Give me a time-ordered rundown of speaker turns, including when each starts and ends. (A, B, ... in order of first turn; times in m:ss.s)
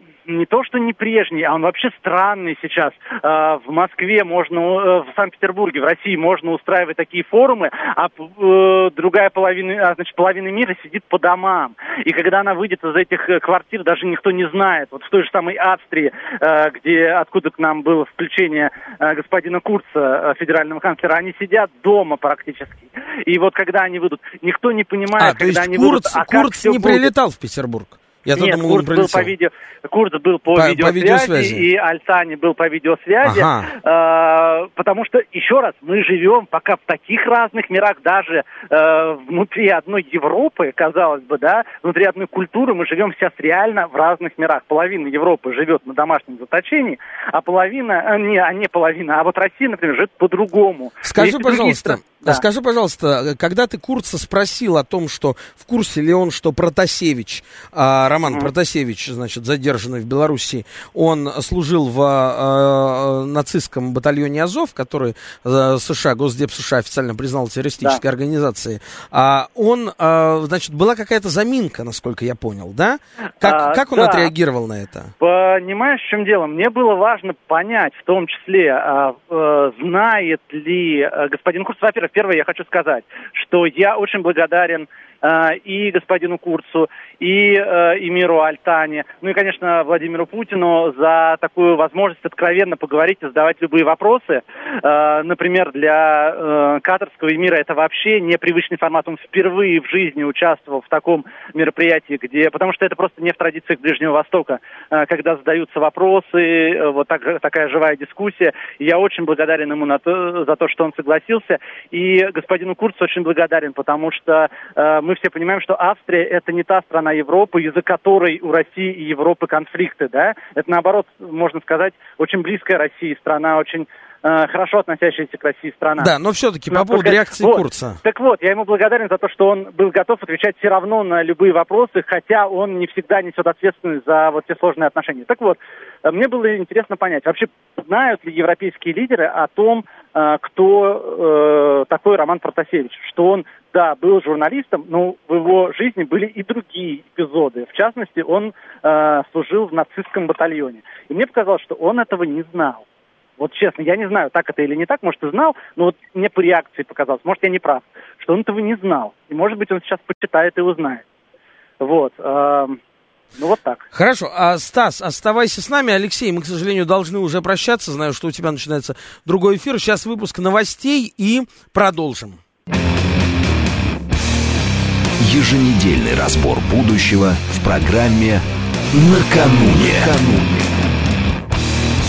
0:00.3-0:27.1 A
0:25.2-0:29.3 B
0:28.4-0:52.4 A
0:30.5-0:31.6 B
0:33.2-0:33.7 B
0:51.0-1:15.1 B
1:13.4-1:14.3 A
1:15.2-2:06.1 A
2:06.0-2:08.0 B
2:06.7-2:32.8 A
2:33.4-2:41.0 A
2:41.8-2:42.8 A
2:43.4-2:43.9 A
2:43.9-2:52.4 B
2:55.2-3:00.7 C